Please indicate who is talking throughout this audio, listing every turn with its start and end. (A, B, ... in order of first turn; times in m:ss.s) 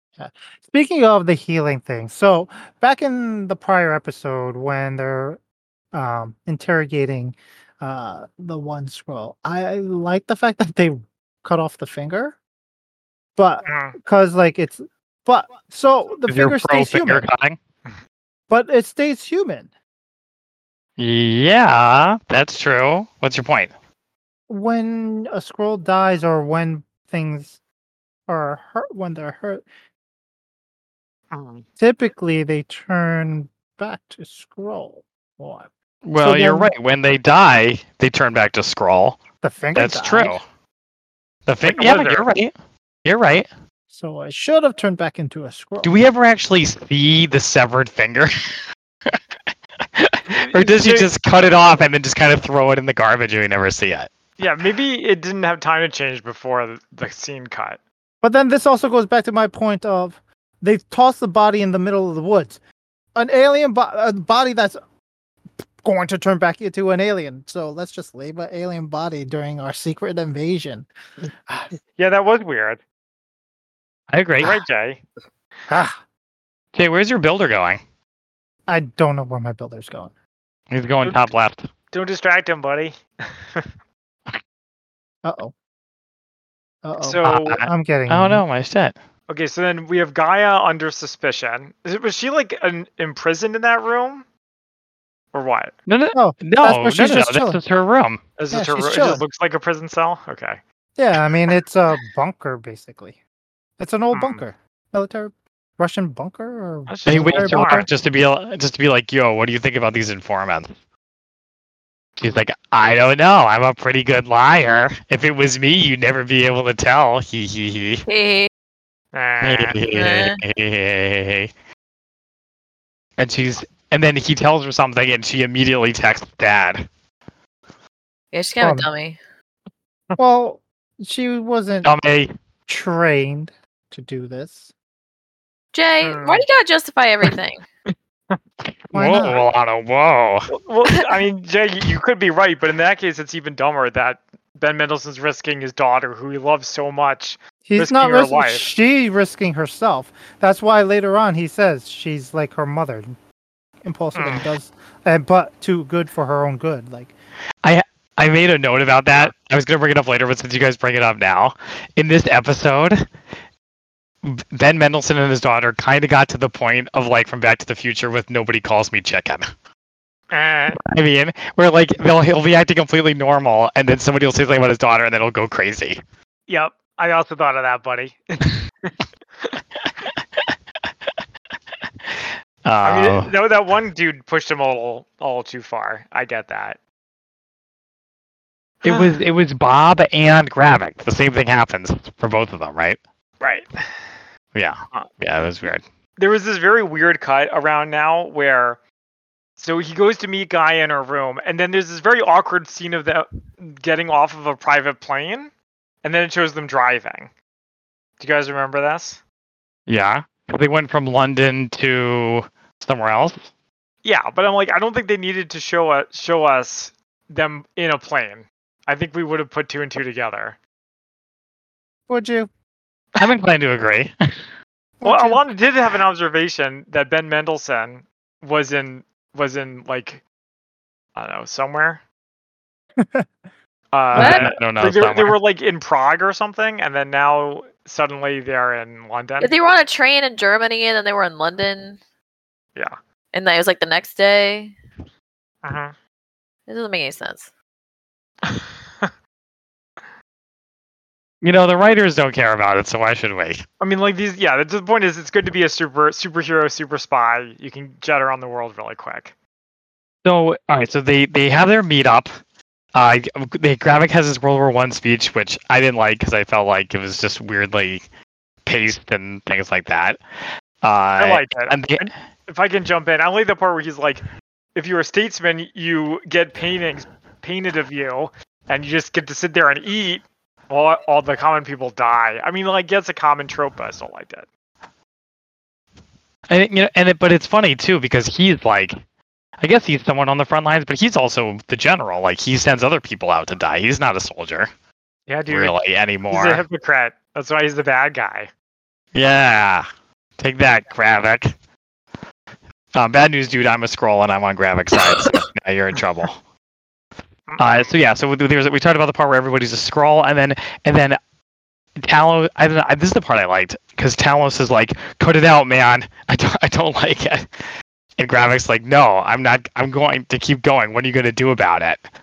0:00.2-0:05.4 A
0:05.9-0:12.4 A
0:13.4-0:17.3 A
0:13.6-0:13.9 B
0:16.3-0:17.6 C
0:18.5-0:19.7 A
0:21.0-0:23.7 C
0:24.5-0:27.6 A
0:28.3-0:29.6 A
0:31.3-0:31.6 B
0:31.8-0:36.7 A
0:36.0-0:39.2 C
0:39.4-0:40.4 A
0:39.8-0:40.4 C
0:41.4-0:42.5 C
0:41.6-0:42.3 B
0:43.0-0:43.5 C
0:43.9-0:45.9 A
0:45.8-0:48.6 C
0:49.9-0:54.1 C
0:50.3-0:51.1 B
0:54.4-0:57.8 B
0:58.2-1:02.6 A
1:03.1-1:04.8 A
1:05.8-1:10.9 A
1:11.5-1:11.7 A
1:12.0-1:12.8 B
1:14.1-1:14.6 C
1:14.4-1:15.0 B
1:15.7-1:16.0 A
1:16.7-1:17.8 C
1:18.7-1:20.1 A
1:20.7-1:21.7 C
1:21.9-1:23.7 B
1:25.2-1:25.5 A
1:26.8-1:28.4 A
1:27.0-1:27.6 B
1:27.2-1:29.0 C
1:29.3-1:34.2 B
1:35.3-1:35.7 B
1:35.9-1:38.2 C
1:36.1-1:37.6 A
1:38.4-1:40.6 B
1:38.5-1:39.2 A
1:41.0-1:43.2 A
1:43.8-1:47.9 A
1:44.1-1:44.4 B
1:46.9-1:47.9 B
1:47.1-1:50.7 C
1:52.2-1:58.0 C
1:58.1-1:58.5 D
1:59.1-1:59.8 B
1:59.4-2:01.5 C
1:59.9-2:00.4 D
2:03.2-2:06.8 C
2:08.3-2:09.2 D
2:08.6-2:08.9 A
2:10.2-2:11.9 A
2:11.8-2:12.3 C
2:12.7-2:14.7 A
2:15.7-2:17.6 D
2:16.0-2:16.4 B
2:17.9-2:18.4 B
2:18.6-2:20.5 C
2:18.9-2:19.4 A
2:20.5-2:28.7 B
2:27.6-2:33.1 A
2:33.8-2:37.1 A
2:34.1-2:34.5 B
2:37.6-2:43.0 C
2:44.2-2:49.5 C
2:50.3-2:50.8 B
2:50.7-2:56.0 C
2:56.5-2:59.5 B
2:59.8-3:00.4 C
3:02.0-3:03.3 C
3:02.8-3:06.8 B
3:08.8-3:13.0 C
3:08.8-3:09.2 B
3:13.4-3:14.1 B
3:14.5-3:15.8 C
3:16.2-3:18.8 B
3:19.6-3:25.5 B
3:26.0-3:27.3 B
3:28.2-3:29.2 B
3:29.9-3:33.5 C
3:34.0-3:40.6 B
3:42.1-3:42.5 A
3:43.2-3:44.1 C
3:45.0-3:45.4 A
3:45.0-3:50.2 B
3:51.2-3:52.0 B
3:53.0-3:53.3 A
3:53.9-3:59.5 B
3:54.1-3:55.4 C
3:54.2-3:54.5 D
3:59.4-4:02.0 D
4:03.3-4:04.7 D
4:05.6-4:05.9 B
4:06.7-4:07.5 D
4:08.4-4:09.1 B
4:11.4-4:13.6 C
4:13.8-4:19.3 B
4:20.2-4:22.3 C
4:22.9-4:28.0 C
4:28.6-4:30.2 C
4:30.8-4:32.1 C
4:31.2-4:44.5 B
4:46.5-4:48.9 C
4:49.6-4:54.7 C
4:55.3-4:55.7 B
4:55.5-4:56.6 C
4:56.3-4:58.5 B
4:59.1-4:59.8 C
5:00.4-5:01.5 C
5:02.9-5:06.4 C
5:07.5-5:07.9 B
5:07.6-5:11.2 C
5:12.0-5:17.5 C
5:18.2-5:22.0 C